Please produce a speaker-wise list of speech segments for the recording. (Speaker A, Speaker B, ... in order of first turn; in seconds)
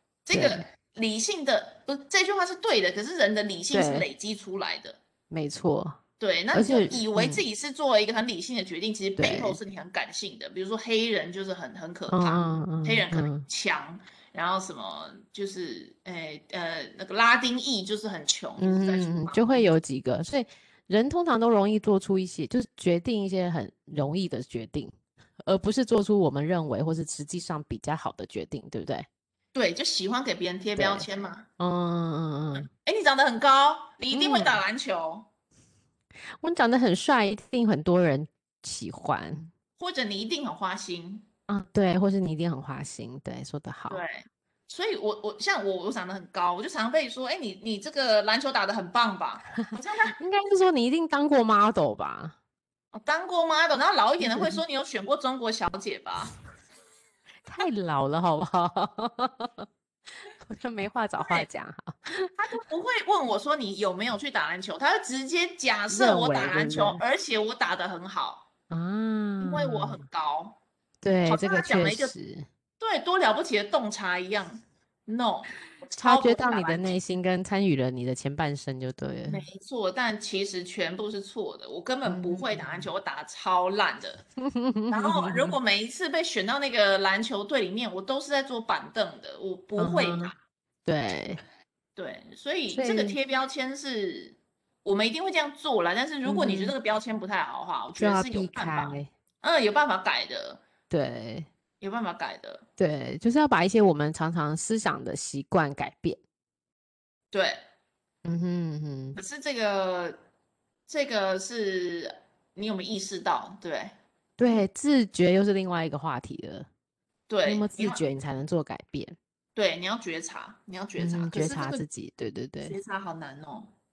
Speaker A: 0.2-5.0, 6.2-19.7, 29.5-31.5, 32.6-35.3, 39.8-41.3, 43.9-50.2, 52.9-56.4, 61.2-61.5, 62.4-68.5, 69.4-70.6, 71.3-72.1, 72.8-76.9, 79.3-84.2, 84.9-90.4, 92.0-100.6, 101.8-102.6, 107.3-107.6, 109.1-110.2, 110.9-113.9, 117.3-118.0, 119.5-121.8, 122.6-123.7
Speaker B: 0.3-0.6, 3.7-4.1, 5.3-6.0, 6.5-7.4, 9.2-9.6, 12.1-13.4, 18.6-29.1, 30.8-31.1, 31.6-32.7, 34.1-34.6, 36.4-39.5, 41.5-44.0, 50.2-52.4, 54.2-54.6, 57.5-59.7, 60.5-62.5, 65.9-67.0, 68.7-70.0, 71.0-72.5, 76.0-79.4, 82.0-82.9, 84.4-85.6, 89.8-90.3, 90.9-91.4, 92.7-93.2, 96.2-96.7, 98.0-99.1, 100.9-101.5, 102.8-106.2, 108.2-109.2, 114.4-116.7, 117.5-119.2, 121.0-122.8